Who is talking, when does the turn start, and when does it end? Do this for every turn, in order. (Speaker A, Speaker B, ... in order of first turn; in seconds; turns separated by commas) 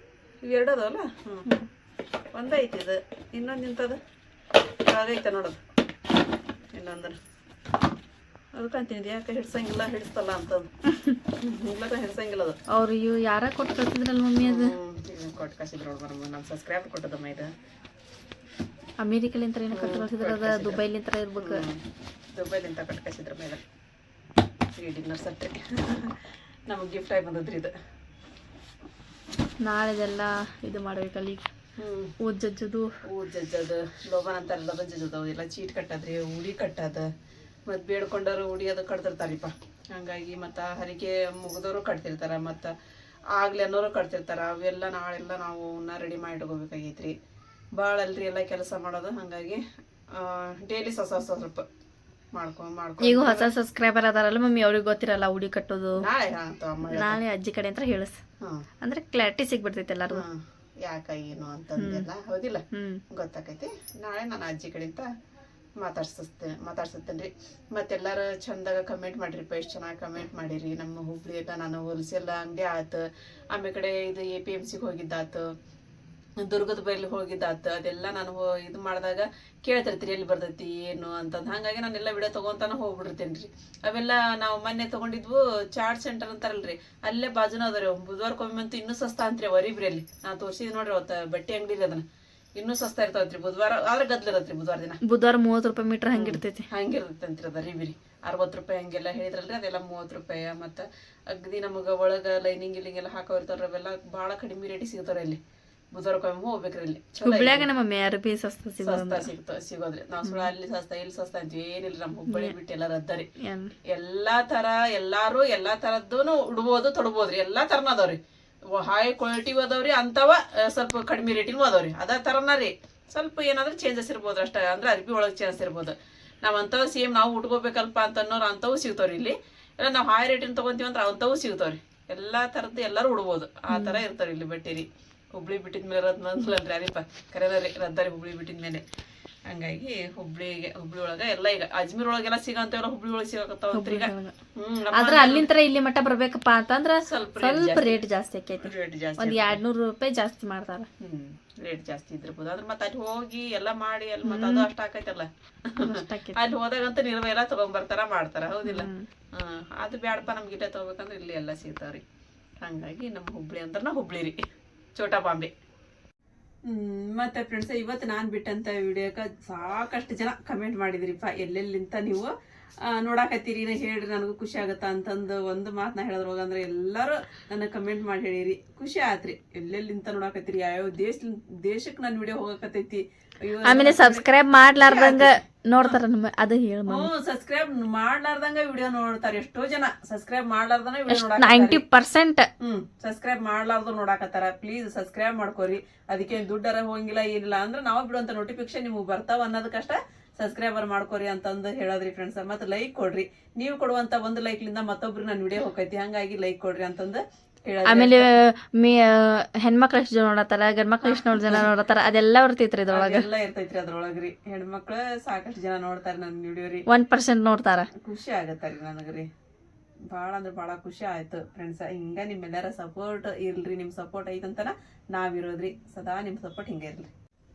Speaker A: 0.4-1.4, Speaker A: 2.3-4.0, Speaker A: 4.8-5.6, Speaker A: 6.7-7.2, Speaker A: 8.6-10.7, Speaker A: 11.4-12.6, Speaker B: 12.7-14.7, Speaker A: 14.4-17.5, Speaker B: 19.0-21.6, Speaker A: 19.7-20.8, Speaker A: 21.4-21.8, Speaker A: 22.3-23.6, Speaker A: 24.8-26.2, Speaker A: 26.7-27.7, Speaker B: 29.6-31.4, Speaker A: 31.8-32.1, Speaker B: 32.2-32.9, Speaker A: 33.1-37.1, Speaker A: 37.7-42.7, Speaker A: 43.4-47.1, Speaker A: 47.8-49.6, Speaker A: 50.1-51.6, Speaker A: 52.3-53.5, Speaker B: 53.0-56.0, Speaker A: 56.0-57.2, Speaker B: 56.9-58.2, Speaker B: 58.8-60.2, Speaker A: 60.1-65.1, Speaker B: 61.8-62.0, Speaker B: 62.7-63.0, Speaker A: 65.8-75.5, Speaker A: 76.4-92.0, Speaker A: 92.6-95.0, Speaker B: 95.0-96.6, Speaker A: 96.1-105.4, Speaker A: 105.9-107.7, Speaker B: 107.2-109.3, Speaker A: 108.8-113.3, Speaker B: 110.2-110.5, Speaker B: 112.3-112.5, Speaker B: 113.4-113.7, Speaker A: 113.9-118.2, Speaker A: 118.7-138.8, Speaker B: 133.7-134.0, Speaker A: 139.5-145.5, Speaker B: 143.7-144.3, Speaker B: 144.9-150.9, Speaker A: 147.1-148.0, Speaker A: 148.6-149.6, Speaker A: 151.0-155.7, Speaker B: 154.2-154.7, Speaker B: 155.8-156.4, Speaker A: 156.3-162.0, Speaker B: 158.6-159.0, Speaker A: 162.6-164.4, Speaker A: 164.9-165.5, Speaker A: 166.7-172.3, Speaker A: 172.9-184.2, Speaker B: 183.6-187.1, Speaker A: 184.8-186.0, Speaker A: 186.9-191.8, Speaker B: 191.1-192.5, Speaker A: 192.6-208.3, Speaker B: 207.8-213.3, Speaker A: 211.0-211.7, Speaker A: 212.9-216.8, Speaker B: 216.9-217.9, Speaker A: 218.0-219.3, Speaker A: 220.1-227.1